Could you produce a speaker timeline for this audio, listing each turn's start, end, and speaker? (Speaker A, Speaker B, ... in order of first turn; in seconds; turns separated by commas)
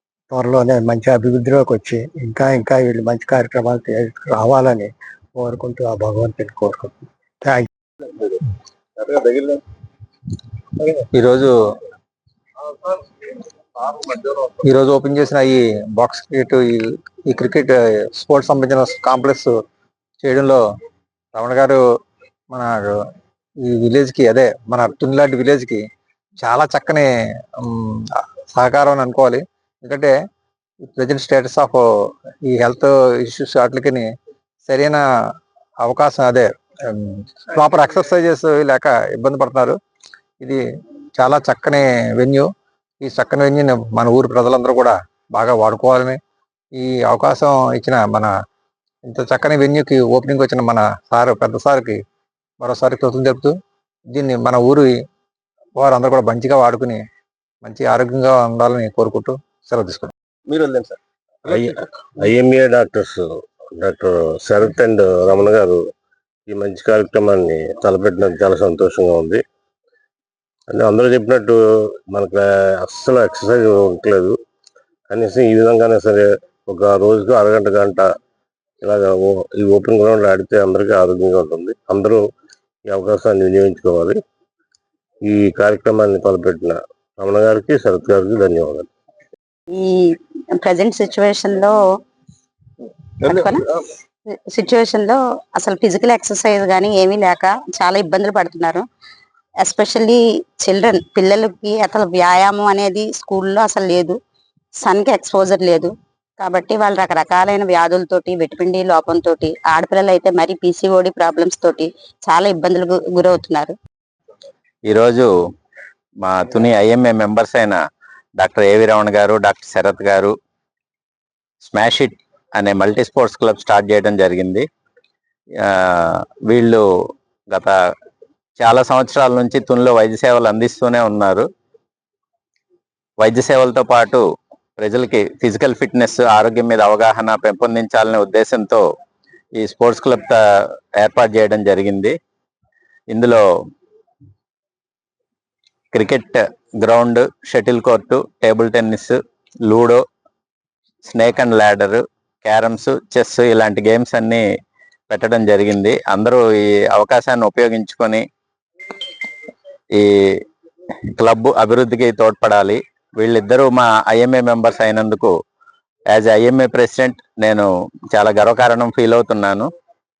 Speaker A: 0.3-7.7, Speaker B: 11.1-11.5, Speaker B: 14.6-19.5, Speaker B: 20.2-20.6, Speaker B: 21.3-21.8, Speaker B: 22.5-22.9, Speaker B: 23.7-25.8, Speaker B: 26.4-27.1, Speaker B: 27.6-30.1, Speaker B: 30.9-31.8, Speaker B: 32.5-34.0, Speaker B: 34.7-35.0, Speaker B: 35.8-39.8, Speaker B: 41.2-42.5, Speaker B: 43.0-46.2, Speaker B: 46.8-48.3, Speaker B: 49.1-52.0, Speaker B: 52.6-53.5, Speaker B: 54.1-54.9, Speaker B: 55.8-57.0, Speaker B: 57.6-60.1, Speaker C: 60.5-60.9, Speaker C: 61.4-65.8, Speaker C: 66.5-69.4, Speaker C: 70.7-71.6, Speaker C: 72.1-74.4, Speaker C: 75.1-78.1, Speaker C: 78.8-82.2, Speaker C: 82.9-84.2, Speaker C: 85.2-88.9, Speaker D: 90.7-91.7, Speaker E: 90.7-91.7, Speaker D: 94.6-98.8, Speaker E: 95.7-98.7, Speaker E: 99.7-100.1, Speaker D: 99.8-100.1, Speaker D: 100.7-104.1, Speaker E: 100.7-102.5, Speaker D: 104.9-105.8, Speaker E: 104.9-105.9, Speaker E: 106.4-111.5, Speaker D: 106.5-111.8, Speaker E: 112.3-113.3, Speaker D: 112.4-113.7, Speaker E: 114.9-115.2, Speaker E: 116.3-117.7, Speaker E: 118.4-120.3, Speaker E: 121.7-122.1, Speaker E: 122.6-124.6, Speaker E: 126.5-126.8, Speaker E: 128.6-131.4, Speaker E: 133.2-134.2, Speaker E: 134.8-138.8, Speaker E: 139.6-140.3, Speaker E: 141.0-142.1, Speaker E: 143.1-143.4, Speaker E: 145.9-146.3, Speaker E: 146.9-149.1, Speaker E: 149.7-150.0, Speaker E: 151.0-154.4, Speaker E: 155.1-156.4, Speaker E: 156.9-158.2, Speaker E: 161.2-165.3, Speaker E: 166.2-167.6, Speaker E: 168.2-169.7